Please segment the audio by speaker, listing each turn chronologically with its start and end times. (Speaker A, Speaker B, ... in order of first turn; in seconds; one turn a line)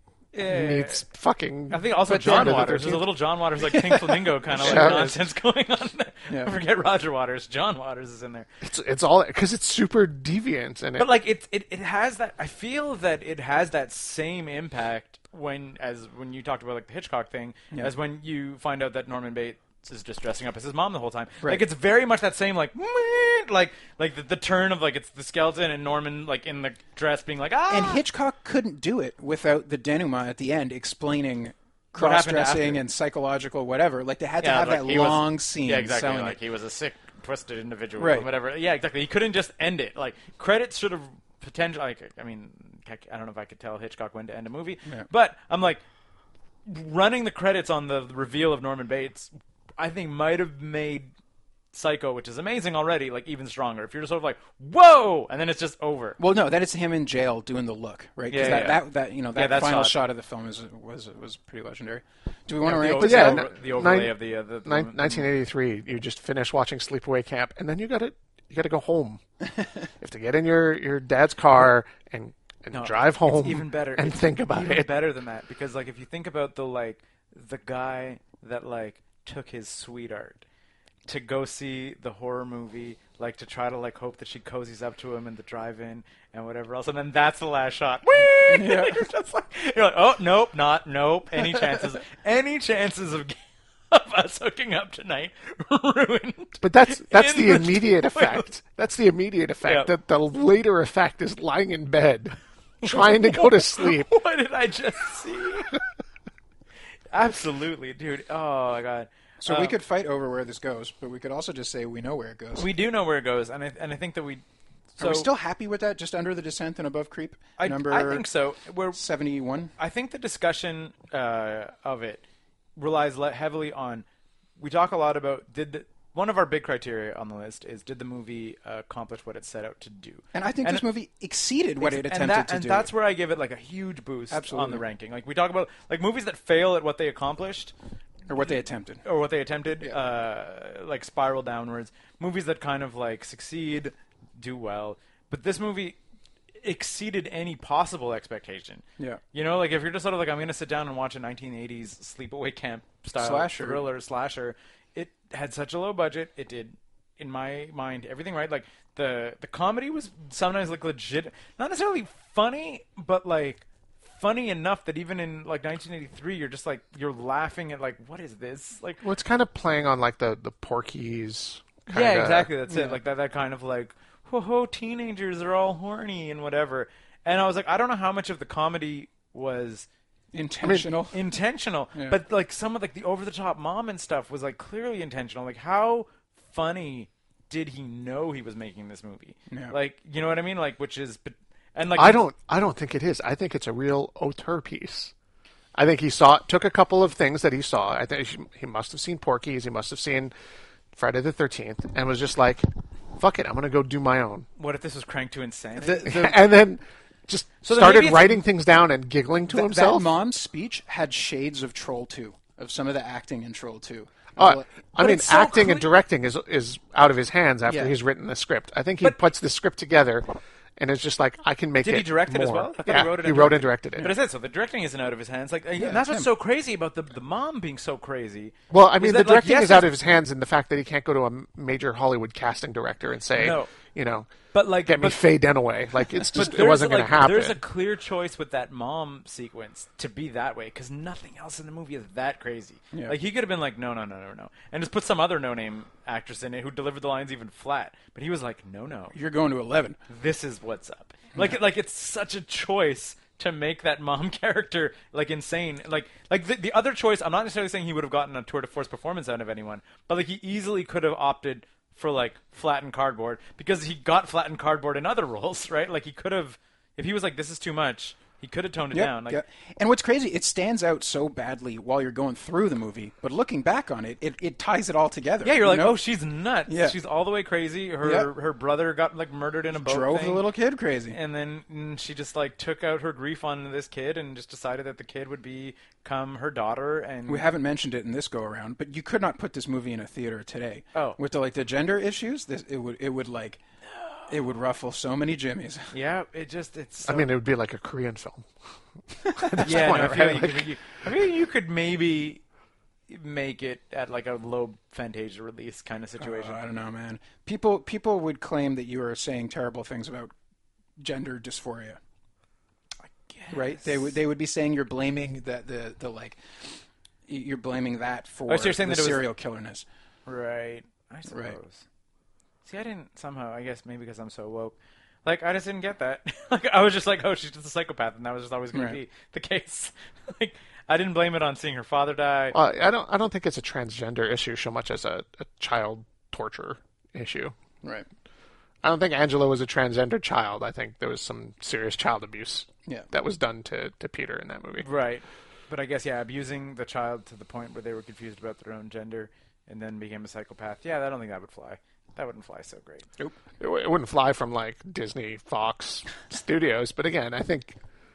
Speaker A: 0.3-1.0
Speaker B: 0.4-3.1
Speaker A: 1.7-8.5
Speaker C: 2.1-2.8
Speaker C: 3.6-5.2
Speaker B: 4.6-5.1
Speaker B: 8.6-11.1
Speaker A: 11.0-28.0
Speaker C: 27.7-36.4
Speaker A: 31.9-32.8
Speaker A: 34.4-45.8
Speaker C: 38.0-38.3
Speaker A: 46.6-51.1
Speaker A: 51.7-56.2
Speaker C: 56.2-63.5
Speaker A: 58.3-58.8
Speaker B: 58.4-58.7
Speaker A: 59.3-60.0
Speaker A: 62.6-65.3
Speaker B: 62.9-69.2
Speaker B: 70.0-74.9
Speaker A: 72.7-80.4
Speaker A: 81.0-93.4
Speaker C: 88.5-89.1
Speaker C: 91.5-91.8
Speaker A: 93.9-98.4
Speaker B: 96.6-104.1
Speaker A: 99.6-99.9
Speaker A: 102.8-105.8
Speaker A: 107.1-109.7
Speaker C: 109.4-112.7
Speaker A: 112.6-114.4
Speaker A: 115.0-115.3
Speaker C: 115.0-118.2
Speaker A: 117.6-119.0
Speaker C: 118.9-119.7
Speaker A: 119.8-122.2
Speaker A: 122.8-124.0
Speaker A: 124.6-130.8
Speaker C: 130.3-132.9
Speaker A: 131.8-137.7
Speaker C: 134.3-134.8
Speaker C: 138.3-139.0
Speaker A: 138.4-146.0
Speaker A: 146.6-169.0
Speaker C: 153.2-153.8
Speaker B: 169.0-172.5
Speaker A: 171.9-179.9
Speaker C: 172.7-173.0
Speaker C: 180.3-181.2
Speaker B: 180.6-180.9
Speaker A: 181.1-192.2
Speaker C: 189.5-189.7
Speaker B: 191.9-195.1
Speaker B: 195.7-200.3
Speaker B: 200.9-204.5
Speaker A: 204.6-206.3
Speaker C: 205.8-206.2
Speaker B: 206.0-210.1
Speaker A: 207.6-208.4
Speaker C: 209.5-214.7
Speaker B: 214.4-224.1
Speaker A: 214.9-215.9
Speaker C: 217.6-217.9
Speaker A: 221.8-229.9
Speaker C: 225.8-226.3
Speaker B: 228.7-234.3
Speaker A: 233.3-233.7
Speaker A: 234.5-235.2
Speaker B: 234.8-237.6
Speaker A: 236.3-249.2
Speaker C: 249.1-250.0
Speaker A: 250.1-269.4
Speaker C: 268.9-276.0
Speaker A: 275.4-280.4
Speaker C: 276.7-277.0
Speaker C: 278.0-278.3
Speaker C: 279.8-281.2
Speaker A: 281.1-287.5
Speaker C: 287.3-293.6
Speaker A: 294.0-294.3
Speaker C: 294.3-295.9
Speaker A: 295.9-297.3
Speaker B: 297.0-298.5
Speaker B: 299.1-300.7
Speaker C: 299.4-299.9
Speaker A: 299.6-302.4
Speaker A: 303.1-306.6
Speaker C: 306.2-310.3
Speaker C: 311.0-312.0
Speaker A: 313.0-314.0
Speaker C: 313.5-319.8
Speaker A: 318.5-319.3
Speaker A: 320.2-321.8
Speaker C: 321.3-321.6
Speaker A: 322.6-332.6
Speaker B: 332.5-337.6
Speaker B: 338.8-344.9
Speaker A: 344.8-353.1
Speaker B: 353.6-357.8